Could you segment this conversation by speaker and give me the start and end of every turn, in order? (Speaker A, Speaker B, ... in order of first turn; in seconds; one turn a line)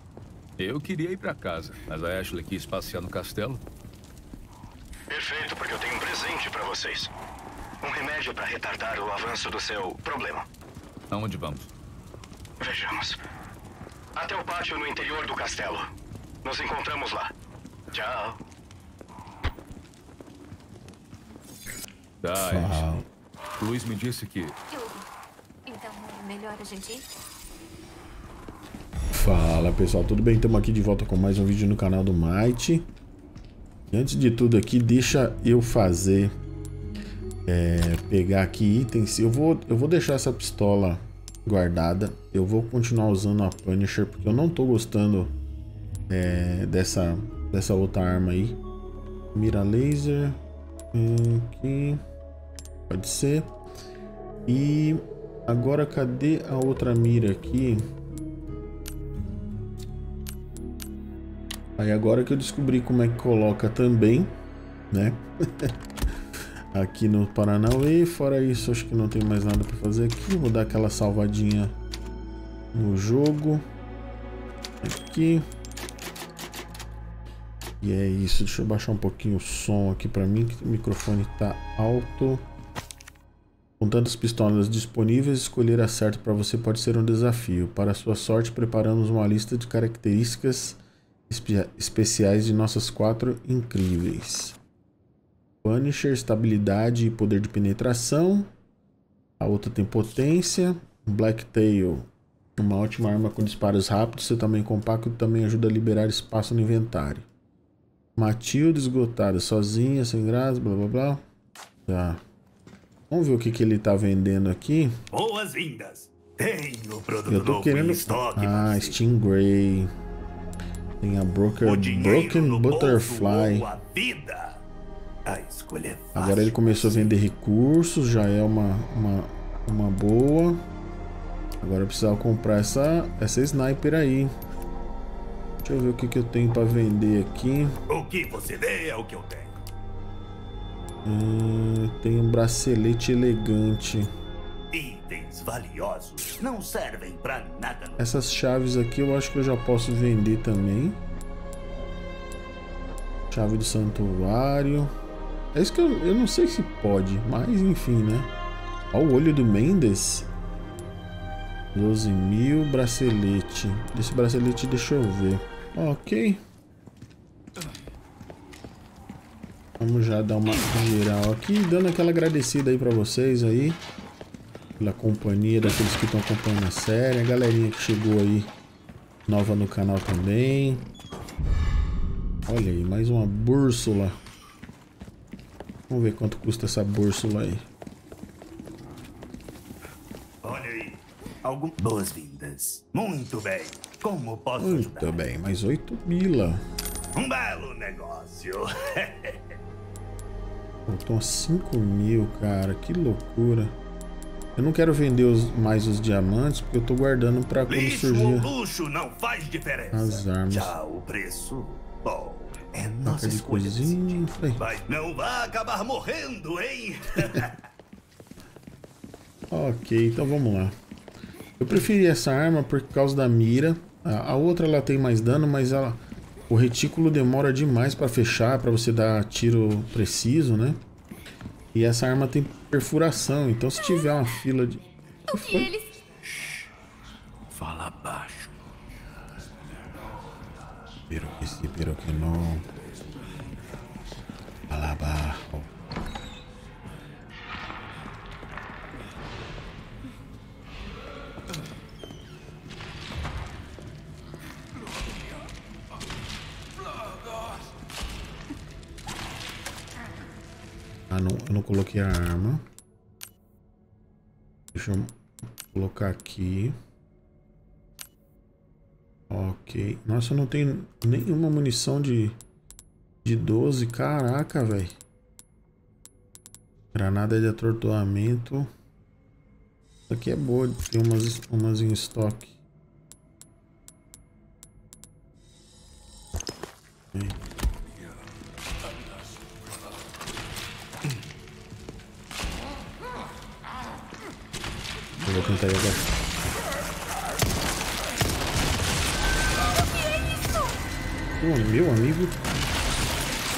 Speaker A: 0.6-3.6
Speaker B: 5.1-7.1
Speaker B: 7.8-10.4
Speaker A: 11.1-11.7
Speaker B: 12.6-13.2
Speaker B: 14.2-15.9
Speaker B: 16.4-17.3
Speaker B: 17.9-18.4
Speaker A: 22.2-23.0
Speaker C: 22.4-23.1
Speaker A: 23.6-24.6
Speaker D: 24.7-25.1
Speaker D: 25.6-27.1
Speaker C: 29.1-32.9
Speaker C: 33.9-36.3
Speaker C: 37.5-45.3
Speaker C: 46.1-48.6
Speaker C: 49.3-50.4
Speaker C: 50.9-52.0
Speaker C: 52.9-53.5
Speaker C: 54.5-57.8
Speaker C: 61.8-64.3
Speaker C: 64.9-65.7
Speaker C: 66.7-71.7
Speaker C: 72.7-73.6
Speaker C: 74.8-75.4
Speaker C: 77.8-82.4
Speaker C: 83.8-94.6
Speaker C: 95.6-98.5
Speaker C: 99.4-107.2
Speaker C: 108.2-111.2
Speaker C: 111.9-112.2
Speaker C: 113.1-115.0
Speaker E: 115.1-119.0
Speaker C: 117.3-119.9
Speaker C: 121.0-123.7
Speaker E: 121.6-124.6
Speaker E: 125.2-127.2
Speaker C: 126.1-130.6
Speaker C: 131.6-134.3
Speaker C: 135.6-137.7
Speaker E: 137.9-139.6
Speaker C: 141.0-144.1
Speaker E: 144.7-148.0
Speaker C: 148.0-151.0
Speaker C: 153.3-154.9
Speaker C: 155.5-158.3
Speaker C: 158.9-160.3
Speaker C: 161.7-166.4
Speaker C: 169.8-173.8
Speaker C: 174.8-178.5
Speaker C: 179.3-180.8
Speaker C: 182.5-184.2
Speaker C: 185.9-187.6
Speaker E: 190.4-195.2
Speaker C: 194.6-196.6
Speaker E: 197.1-199.4
Speaker C: 200.9-203.7
Speaker C: 204.6-208.5
Speaker E: 207.7-217.6
Speaker C: 209.9-210.7
Speaker C: 213.0-214.6
Speaker C: 219.5-220.7
Speaker C: 221.6-226.0
Speaker C: 226.5-230.8
Speaker C: 231.7-235.7
Speaker D: 235.3-236.0
Speaker A: 237.5-238.5
Speaker C: 241.1-242.6
Speaker C: 244.7-245.7
Speaker C: 261.1-262.6
Speaker C: 264.7-265.1
Speaker C: 265.6-266.8
Speaker C: 269.3-272.4
Speaker C: 273.2-275.0
Speaker C: 276.9-278.7
Speaker C: 280.1-282.5
Speaker C: 295.2-296.1
Speaker C: 301.4-302.4